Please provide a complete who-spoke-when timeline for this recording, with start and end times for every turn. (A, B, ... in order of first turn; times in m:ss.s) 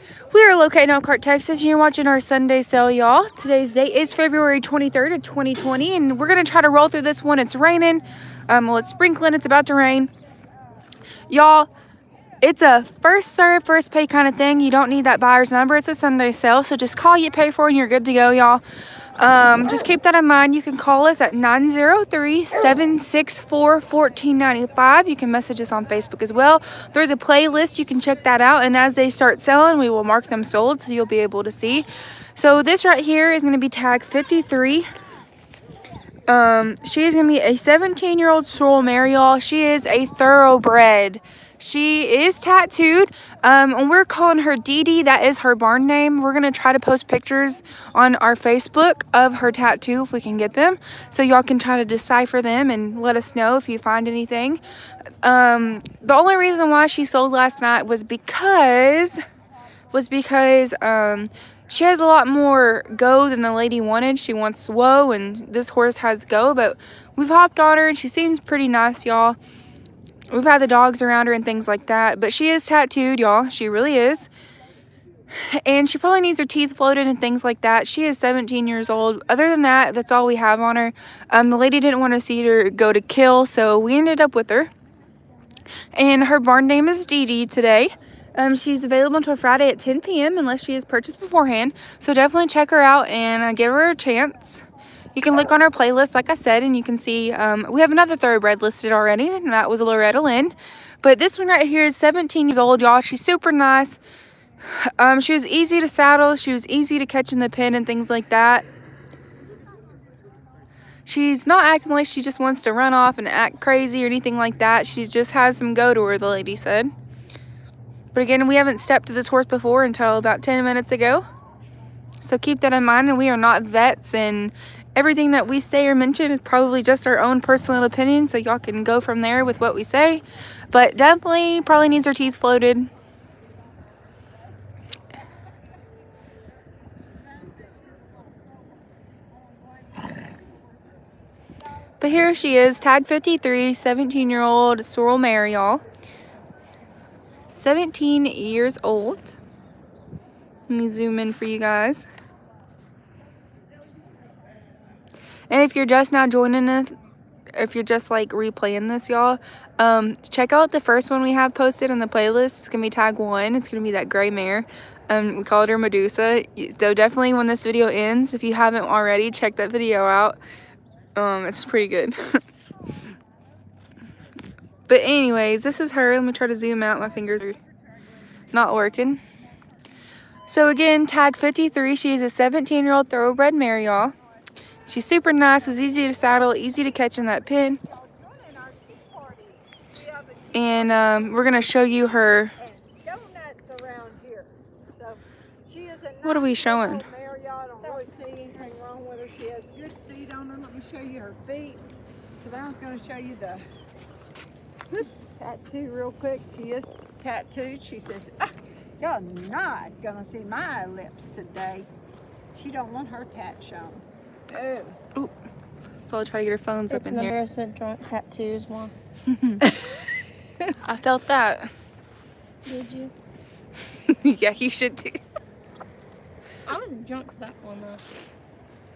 0:00.3-0:10.1 A
0:11.3-0:11.7 A
0:12.4-0:18.6 A
0:19.2-0:34.9 A
0:36.3-0:54.6 A
0:55.2-0:59.2 A
0:59.9-1:09.4 A
1:10.3-1:14.3 A
1:15.3-1:24.7 A
1:25.9-1:44.0 A
1:44.6-1:48.6 A
1:51.0-1:56.9 A
1:58.1-2:01.2 A
2:02.2-2:12.9 A
2:22.0-2:25.8 A
2:27.5-2:29.4 A
2:30.7-2:32.0 A
2:35.5-2:37.0 A
2:37.5-2:50.4 A
2:51.2-2:52.4 A
2:54.9-2:57.6 A
2:58.5-2:59.2 A
3:00.5-3:04.1 A
3:04.9-3:07.8 A
3:07.8-3:21.8 B
3:10.5-3:12.5 A
3:16.2-3:17.0 A
3:22.4-3:23.6 B
3:24.9-3:31.9 B
3:32.5-3:35.0 B
3:36.0-3:37.3 A
3:36.9-3:38.9 C
3:39.3-3:39.6 A
3:39.6-3:39.9 C
3:40.8-3:41.7 A
3:42.6-3:43.1 C
3:44.0-3:45.2 A
3:46.6-3:48.0 C